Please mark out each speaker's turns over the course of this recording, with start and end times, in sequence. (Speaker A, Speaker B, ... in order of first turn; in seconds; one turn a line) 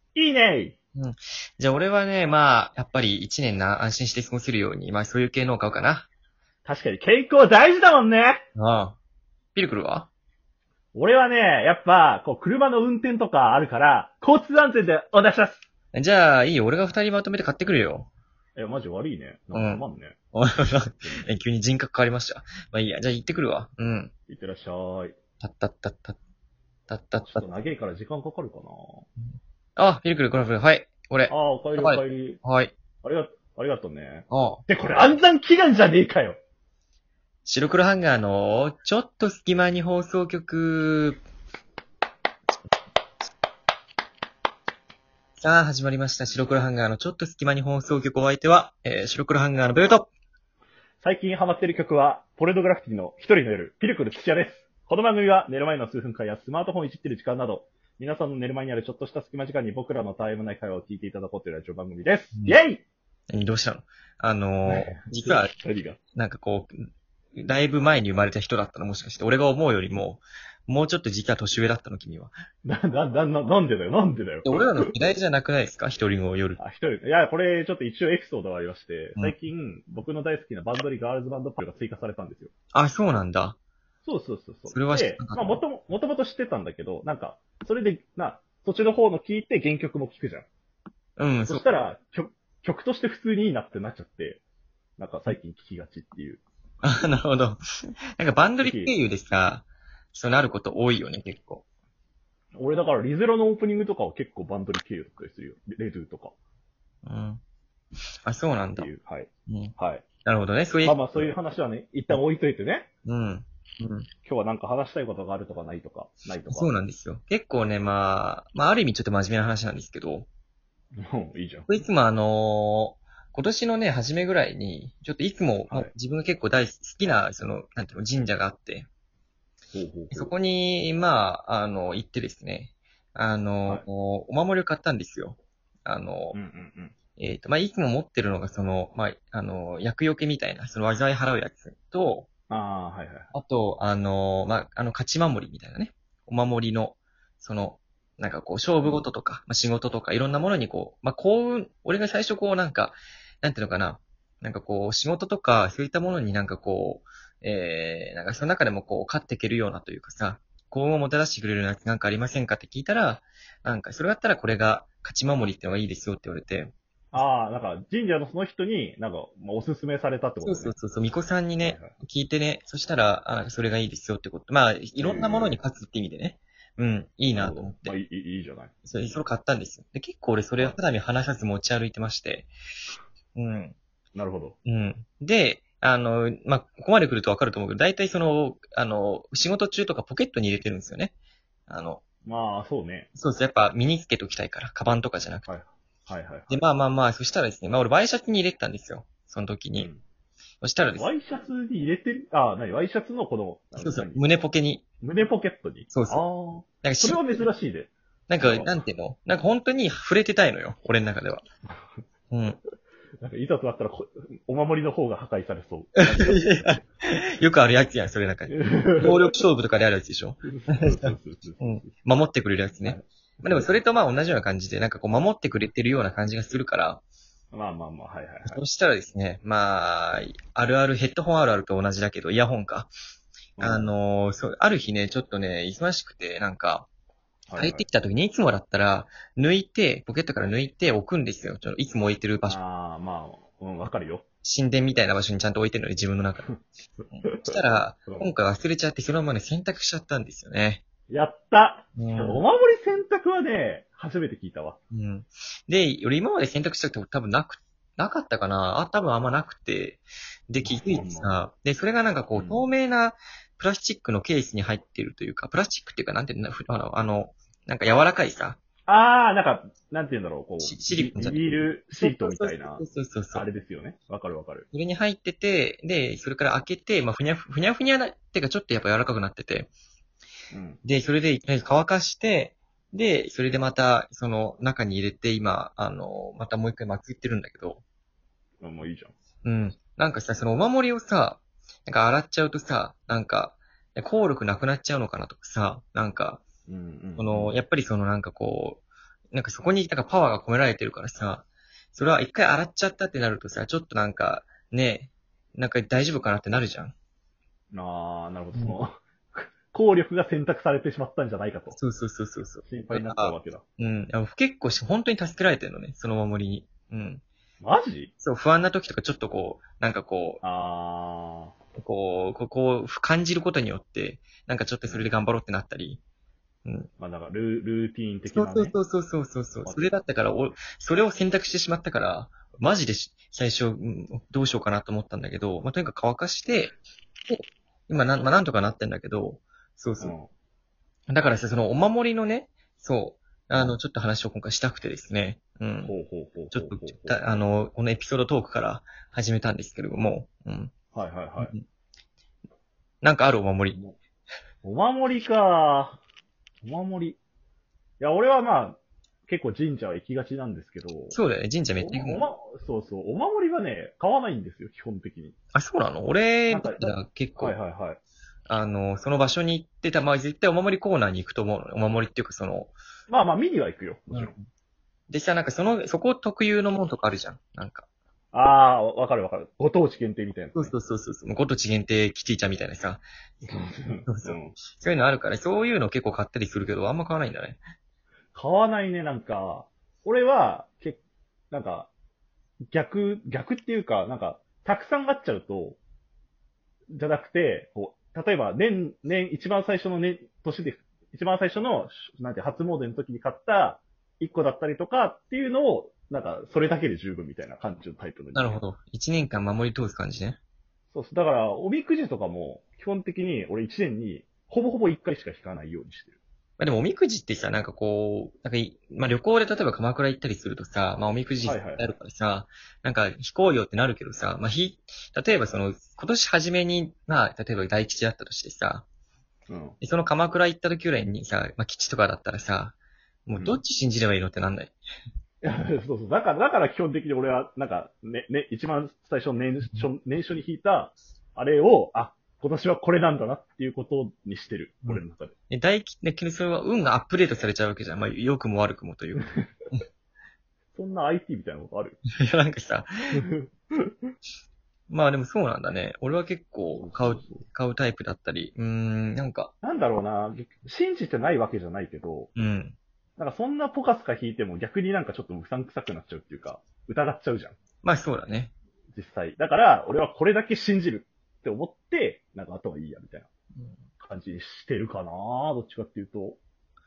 Speaker A: 0.1-0.8
Speaker B: 1.0-6.1
Speaker A: 6.7-8.4
Speaker B: 8.6-9.0
Speaker B: 9.6-10.1
Speaker A: 10.9-15.7
Speaker B: 15.9-18.1
Speaker A: 18.6-20.2
Speaker B: 19.5-19.8
Speaker B: 20.3-24.1
Speaker A: 21.0-21.3
Speaker A: 24.3-25.2
Speaker B: 25.4-26.2
Speaker B: 26.9-27.5
Speaker A: 27.2-29.1
Speaker B: 29.8-32.7
Speaker A: 31.3-32.4
Speaker A: 33.0-36.4
Speaker B: 34.3-34.6
Speaker B: 37.5-41.2
Speaker B: 45.4-50.1
Speaker A: 51.0-62.8
Speaker B: 63.3-65.5
Speaker A: 64.7-66.0
Speaker B: 66.2-66.8
Speaker B: 67.4-72.3
Speaker A: 72.7-74.9
Speaker B: 74.4-76.6
Speaker A: 76.6-82.5
Speaker B: 82.7-83.6
Speaker A: 84.0-90.5
Speaker B: 84.7-85.6
Speaker B: 91.2-91.7
Speaker A: 91.5-94.4
Speaker A: 95.0-96.4
Speaker B: 96.8-101.6
Speaker A: 98.6-99.0
Speaker A: 102.6-106.3
Speaker B: 107.0-107.4
Speaker B: 108.2-108.9
Speaker A: 108.7-110.0
Speaker B: 109.5-111.3
Speaker A: 110.8-112.9
Speaker B: 113.0-114.1
Speaker A: 114.2-116.7
Speaker B: 116.5-120.3
Speaker A: 121.0-121.7
Speaker B: 121.7-128.9
Speaker A: 129.7-130.3
Speaker B: 130.1-136.4
Speaker A: 136.3-136.9
Speaker B: 137.2-142.3
Speaker A: 142.5-143.3
Speaker B: 143.3-166.7
Speaker A: 167.1-170.8
Speaker B: 170.4-178.0
Speaker A: 171.6-171.9
Speaker A: 175.0-175.6
Speaker A: 177.3-178.7
Speaker B: 178.8-182.5
Speaker B: 183.3-183.8
Speaker A: 184.2-184.6
Speaker B: 184.7-191.1
Speaker B: 191.7-192.0
Speaker A: 192.2-193.1
Speaker B: 193.2-195.5
Speaker A: 195.5-196.6
Speaker B: 196.5-199.9
Speaker A: 199.8-200.0
Speaker B: 200.6-201.1
Speaker A: 200.9-204.3
Speaker B: 203.8-204.8
Speaker A: 205.0-208.7
Speaker B: 205.9-206.2
Speaker B: 206.8-207.5
Speaker B: 208.3-211.4
Speaker B: 212.3-212.6
Speaker A: 213.2-216.8
Speaker B: 216.1-227.0
Speaker A: 218.5-219.3
Speaker A: 220.5-221.9
Speaker A: 222.8-223.7
Speaker A: 227.5-228.6
Speaker B: 228.5-232.9
Speaker A: 233.6-233.9
Speaker B: 233.6-236.9
Speaker A: 237.5-237.9
Speaker B: 237.6-242.6
Speaker A: 242.4-244.2
Speaker B: 244.4-246.5
Speaker B: 247.1-250.8
Speaker A: 247.2-248.3
Speaker A: 251.1-254.8
Speaker B: 252.0-252.4
Speaker B: 254.9-268.6
Speaker A: 260.6-261.4
Speaker A: 262.4-262.6
Speaker A: 268.9-274.7
Speaker B: 270.6-271.4
Speaker B: 272.0-273.5
Speaker B: 274.7-279.7
Speaker A: 280.5-280.8
Speaker B: 280.8-287.8
Speaker A: 288.6-289.1
Speaker B: 289.4-296.4
Speaker A: 296.7-297.6
Speaker B: 297.2-306.9
Speaker A: 307.7-311.8
Speaker B: 311.8-317.2
Speaker A: 312.6-313.6
Speaker A: 317.6-318.1
Speaker B: 318.2-320.4
Speaker A: 320.4-321.6
Speaker B: 321.8-326.0
Speaker A: 327.0-328.8
Speaker B: 328.3-336.8
Speaker A: 329.7-329.9
Speaker B: 337.3-340.1
Speaker A: 340.0-340.3
Speaker B: 341.1-345.9
Speaker A: 345.8-347.3
Speaker B: 346.5-350.7
Speaker A: 350.9-351.5
Speaker B: 353.0-353.8
Speaker A: 354.6-356.0
Speaker A: 356.6-357.2
Speaker A: 358.0-361.2
Speaker B: 361.1-362.2
Speaker A: 361.8-365.4
Speaker B: 365.5-367.6
Speaker A: 366.5-368.0
Speaker B: 368.5-372.7
Speaker A: 373.1-374.3
Speaker B: 374.1-374.4
Speaker B: 375.1-377.9
Speaker A: 378.3-380.7
Speaker B: 380.6-383.0
Speaker A: 383.4-384.6
Speaker B: 384.1-387.6
Speaker A: 388.3-391.9
Speaker A: 392.7-395.8
Speaker A: 396.9-408.6
Speaker B: 408.4-410.4
Speaker A: 410.9-416.2
Speaker B: 416.6-428.9
Speaker A: 421.4-421.9
Speaker A: 429.5-429.8
Speaker B: 429.8-434.8
Speaker A: 435.4-445.3
Speaker B: 444.9-449.8
Speaker A: 450.7-452.0
Speaker B: 452.2-453.3
Speaker A: 453.2-454.1
Speaker B: 454.9-459.5
Speaker A: 456.7-457.4
Speaker A: 459.6-462.3
Speaker B: 462.4-462.8
Speaker A: 463.2-467.6
Speaker B: 467.8-468.5
Speaker A: 468.9-473.3
Speaker A: 474.0-476.4